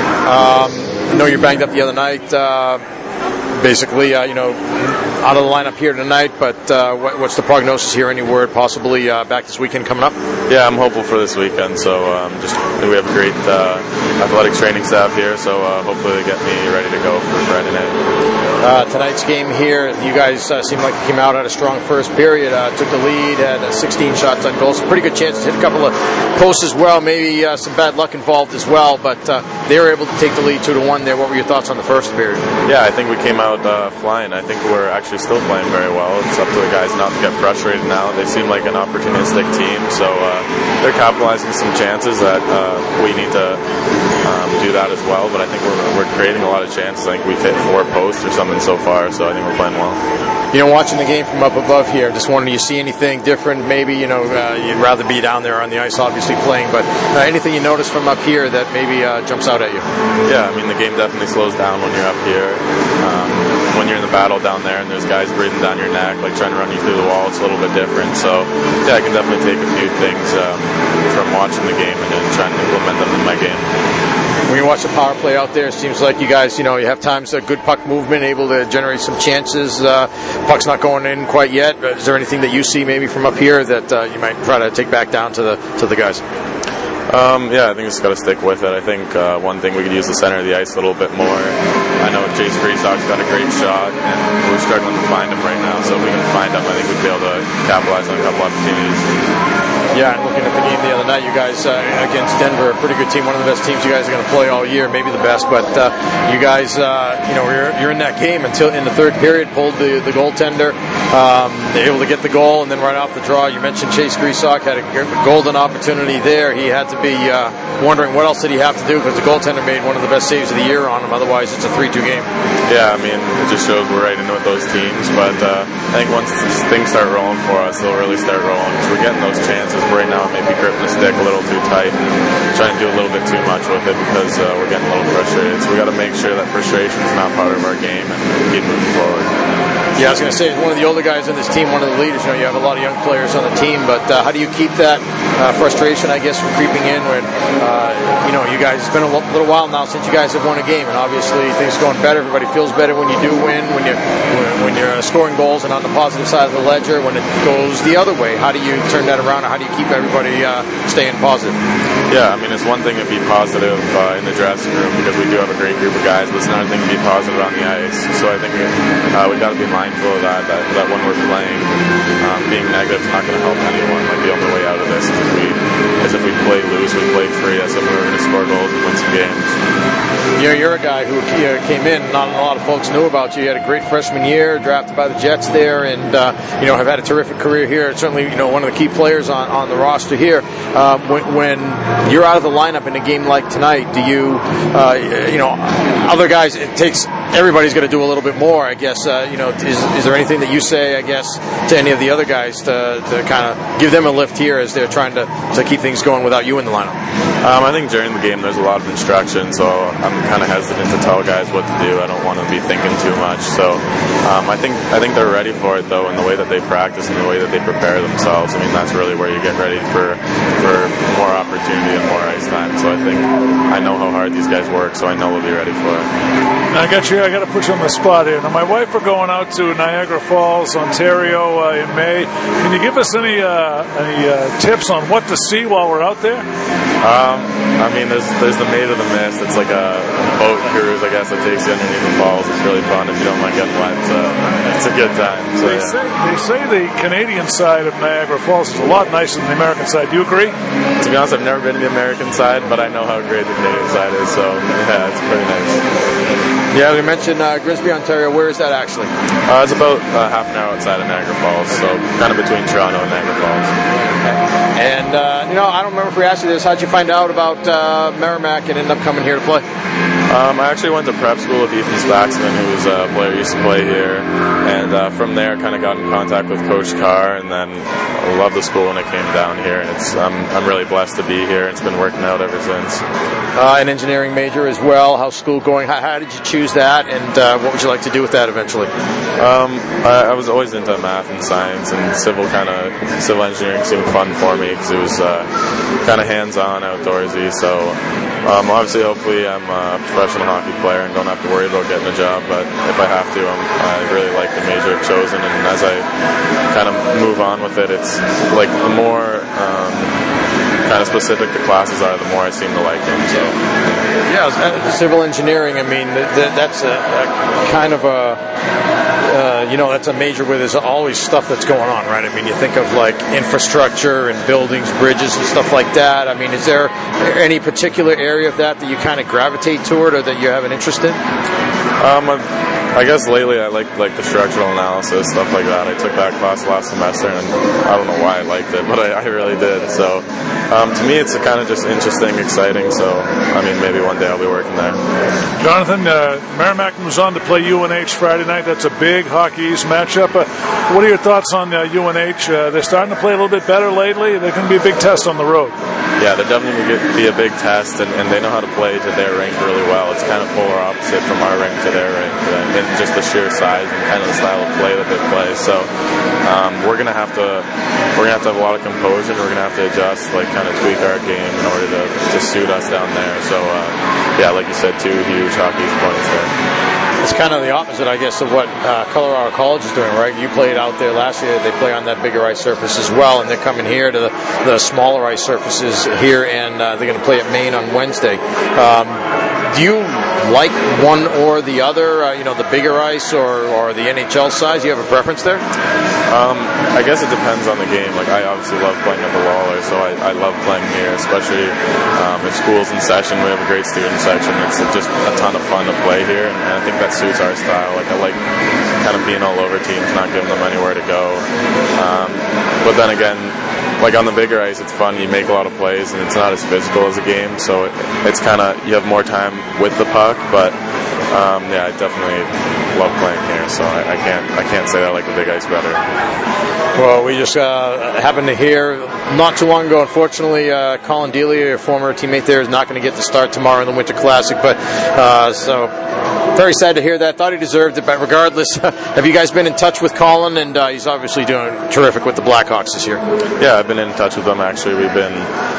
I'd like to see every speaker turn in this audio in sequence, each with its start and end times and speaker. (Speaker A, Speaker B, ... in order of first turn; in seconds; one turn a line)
Speaker A: 0.2-2.8
Speaker A: 3.6-10.2
Speaker B: 10.5-18.0
Speaker A: 18.6-32.5
Speaker B: 32.7-43.6
Speaker B: 44.2-50.0
Speaker A: 50.5-59.9
Speaker B: 60.3-73.7
Speaker A: 74.5-86.2
Speaker B: 87.1-99.1
Speaker A: 99.9-122.3
Speaker B: 122.7-132.0
Speaker B: 132.5-139.3
Speaker A: 140.0-161.6
Speaker B: 162.1-171.7
Speaker B: 172.2-179.6
Speaker A: 180.4-207.0
Speaker B: 207.4-226.1
Speaker C: 226.7-236.4
Speaker B: 237.0-246.0
Speaker C: 245.7-250.5
Speaker B: 251.0-255.8
Speaker A: 256.7-259.1
Speaker B: 259.5-263.7
Speaker A: 264.8-269.6
Speaker B: 270.3-283.0
Speaker A: 283.6-288.9
Speaker B: 289.4-295.5
Speaker B: 296.0-306.1
Speaker B: 306.7-310.2
Speaker B: 310.9-313.6
Speaker A: 314.3-318.4
Speaker A: 319.2-331.2
Speaker B: 332.0-345.0
Speaker C: 345.6-355.7
Speaker B: 356.2-365.9
Speaker B: 366.4-376.5
Speaker A: 377.2-395.6
Speaker B: 396.3-408.4
Speaker B: 409.0-411.4
Speaker B: 412.0-420.8
Speaker B: 421.3-426.0
Speaker A: 427.0-435.9
Speaker A: 436.5-443.2
Speaker B: 443.6-445.5